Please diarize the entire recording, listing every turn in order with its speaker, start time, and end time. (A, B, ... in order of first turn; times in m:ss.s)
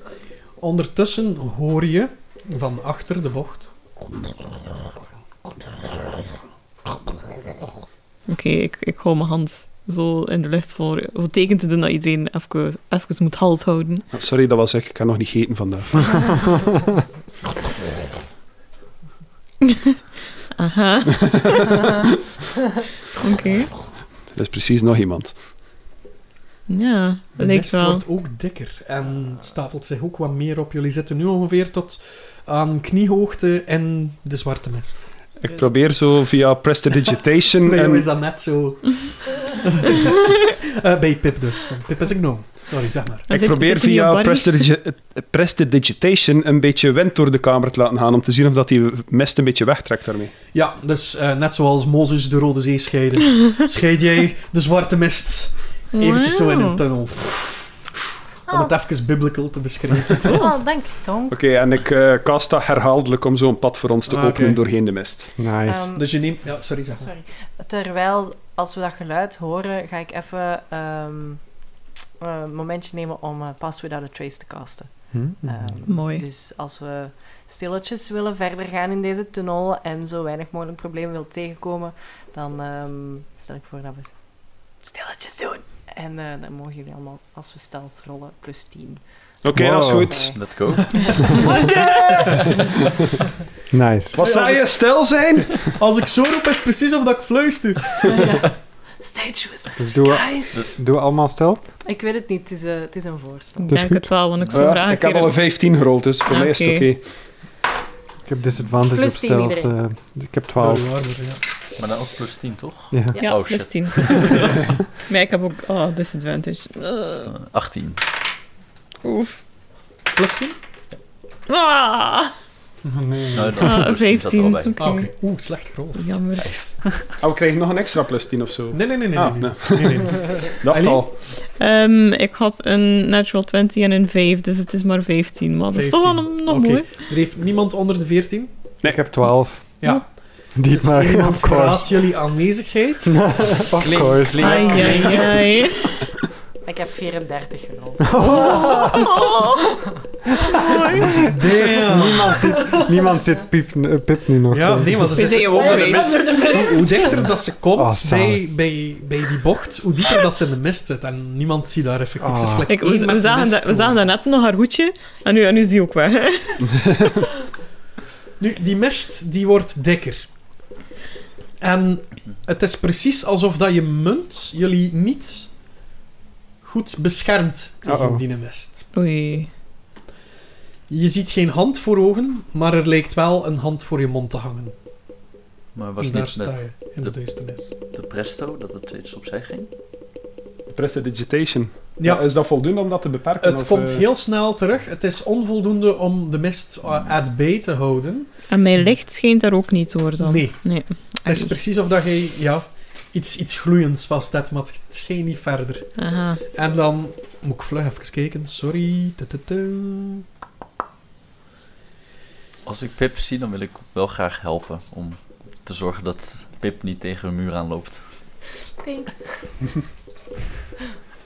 0:00.6-0:03.7 A
0:08.3-0:14.0 B
0:14.1-0:16.3 C
0:20.6-0:21.8 B
0:23.2-0:23.7 B
0:24.3-0:25.4 C
0:26.7-0:28.0 B
0:27.4-0:35.1 A
0:35.4-0:38.1 C
0:37.6-0:43.3 A
0:43.3-0:44.7 B
0:43.3-0:50.3 C
0:50.5-0:57.8 A
0:55.9-0:56.8 B
0:58.5-1:00.4 A
0:58.5-0:58.7 D
1:00.3-1:01.4 D
1:01.3-1:05.4 C
1:04.1-1:04.6 A
1:05.4-1:05.9 E
1:05.6-1:06.1 D
1:05.9-1:07.1 A
1:07.0-1:11.4 D
1:12.2-1:29.0 D
1:15.1-1:15.7 E
1:15.9-1:16.2 B
1:29.4-1:30.4 C
1:29.5-1:30.2 E
1:29.9-1:32.7 D
1:30.3-1:31.5 F
1:33.7-1:34.2 E
1:34.1-1:35.7 C
1:34.2-1:35.0 A
1:35.6-1:38.2 A
1:38.0-1:40.7 D
1:39.8-1:41.6 E
1:41.8-1:43.7 D
1:43.6-1:45.4 B
1:43.7-1:44.2 E
1:44.5-1:47.0 C
1:46.3-1:46.9 B
1:48.2-1:50.9 E
1:48.9-1:49.7 D
1:50.6-1:51.4 A
1:51.8-1:54.6 F
1:52.9-1:53.2 E
1:53.2-1:57.3 B
1:57.3-1:58.0 F
1:59.0-1:59.4 B
2:00.1-2:00.5 A
2:01.5-2:02.3 B
2:02.9-2:03.9 E
2:03.3-2:04.8 F
2:03.6-2:05.1 B
2:04.8-2:06.1 A
2:05.9-2:06.7 B
2:06.4-2:07.1 F
2:07.2-2:11.2 C
2:08.7-2:11.0 A
2:11.4-2:17.0 B
2:15.7-2:18.5 A
2:18.8-2:19.8 E
2:19.8-2:20.1 A
2:20.5-2:22.1 E
2:20.6-2:25.5 A
2:23.1-2:25.1 E
2:24.4-2:26.0 B
2:24.4-2:25.3 D
2:26.6-2:29.1 D
2:28.0-2:29.1 E
2:28.7-2:29.7 B
2:30.4-2:30.8 D
2:30.6-2:31.4 B
2:31.2-2:32.4 A
2:31.8-2:35.2 E
2:32.4-2:33.2 D
2:34.5-2:44.0 A
2:35.1-2:36.6 B
2:35.2-2:37.4 D
2:37.8-2:38.5 E
2:42.2-2:42.7 E
2:42.7-2:46.7 B
2:48.4-2:50.3 A
2:51.6-2:55.5 A
2:56.6-2:58.8 A
2:57.8-2:58.2 E
2:58.9-2:59.5 B
3:00.9-3:04.7 A
3:05.8-3:07.2 F
3:06.0-3:07.7 A
3:07.8-3:09.7 F
3:10.7-3:14.1 C
3:12.0-3:12.2 A
3:13.4-3:18.3 A
3:18.5-3:21.5 B
3:20.2-3:25.9 A
3:26.0-3:26.4 B
3:26.5-3:30.2 A
3:32.6-3:38.0 F
3:38.8-3:39.2 D